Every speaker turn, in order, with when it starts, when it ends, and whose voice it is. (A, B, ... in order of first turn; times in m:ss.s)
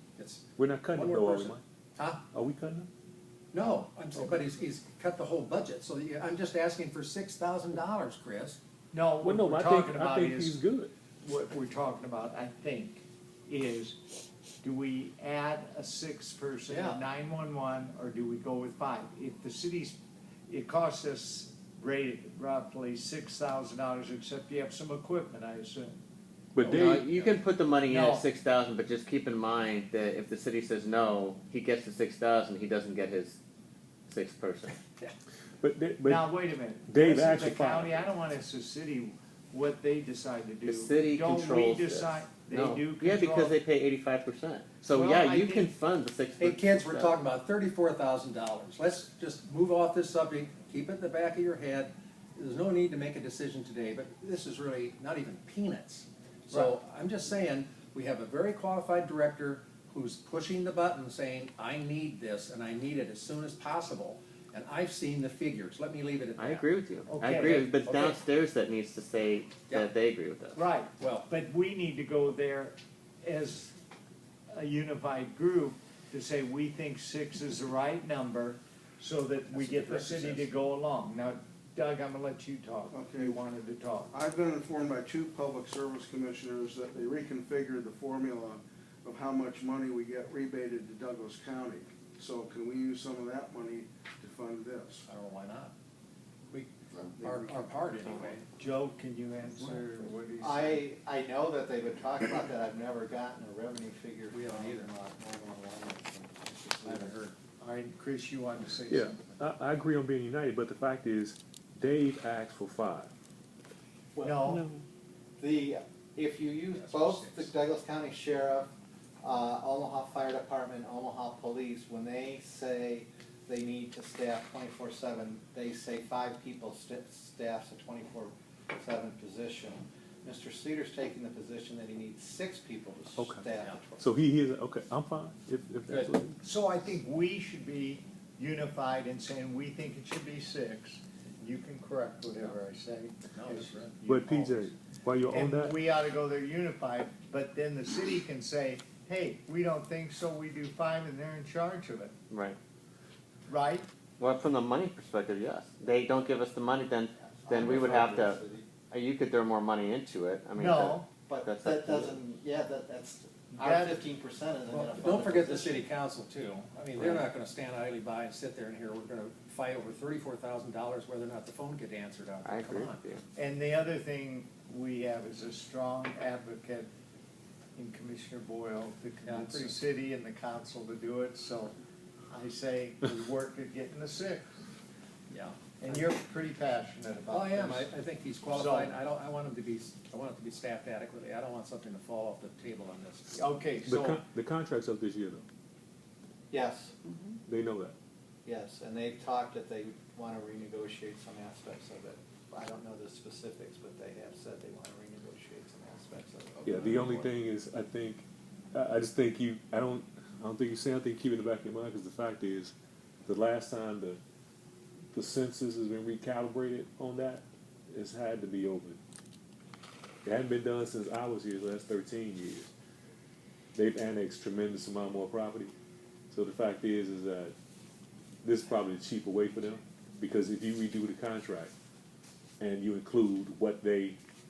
0:00.2-0:02.2 A
0:00.6-0:01.6 B
0:02.3-0:02.9 B
0:03.5-0:08.6 A
0:08.9-0:10.6 C
0:09.2-0:10.9 B
0:11.2-0:14.0 C
0:14.6-0:26.0 C
0:16.7-0:17.0 D
0:26.5-0:27.1 B
0:26.7-0:33.4 E
0:27.9-0:28.2 C
0:34.1-0:34.7 E
0:35.6-0:36.3 B
0:36.0-0:43.5 C
0:36.9-0:38.1 B
0:40.6-0:47.1 E
0:44.9-0:45.7 C
0:46.4-1:06.7 A
1:06.4-1:10.6 E
1:07.1-1:08.0 C
1:10.5-1:13.8 C
1:11.0-1:11.3 A
1:14.5-1:24.1 C
1:19.5-1:20.5 A
1:22.9-1:23.4 F
1:24.1-1:35.0 F
1:35.1-1:35.7 A
1:36.5-1:38.4 A
1:37.0-1:37.7 F
1:38.6-1:40.8 C
1:40.4-1:47.2 D
1:44.3-1:44.9 A
1:46.8-1:47.4 A
1:47.6-1:49.4 C
1:48.9-1:53.1 B
1:54.1-1:54.4 D
1:54.2-1:54.6 C
1:55.4-1:58.7 D
1:56.7-1:57.5 A
1:59.2-2:14.0 D
2:13.2-2:16.4 B
2:15.9-2:16.1 A
2:16.4-2:32.1 C
2:23.3-2:23.9 A
2:24.1-2:25.8 B
2:32.3-2:32.6 E
2:33.5-2:33.9 C
2:34.2-2:42.2 E
2:37.3-2:38.7 D
2:40.6-2:41.1 C
2:41.3-2:45.8 D
2:43.5-2:44.0 C
2:44.7-2:53.0 A
2:47.0-2:47.2 E
2:52.4-2:53.2 E
2:53.4-2:56.9 C
2:57.8-3:01.8 C
2:59.2-2:59.8 A
3:02.3-3:04.4 C
3:05.3-3:06.0 A
3:05.8-3:07.9 C
3:07.3-3:13.4 A
3:08.5-3:09.0 C
3:13.3-3:14.2 C
3:13.8-3:15.4 B
3:16.5-3:17.0 D
3:17.4-3:17.9 B
3:18.4-3:27.3 D
3:26.6-3:32.7 B
3:33.2-3:34.2 B
3:35.1-3:39.0 B
3:40.2-3:42.7 B
3:43.7-3:45.7 B
3:46.3-3:47.5 B
3:48.4-3:51.7 B
3:52.6-3:54.2 B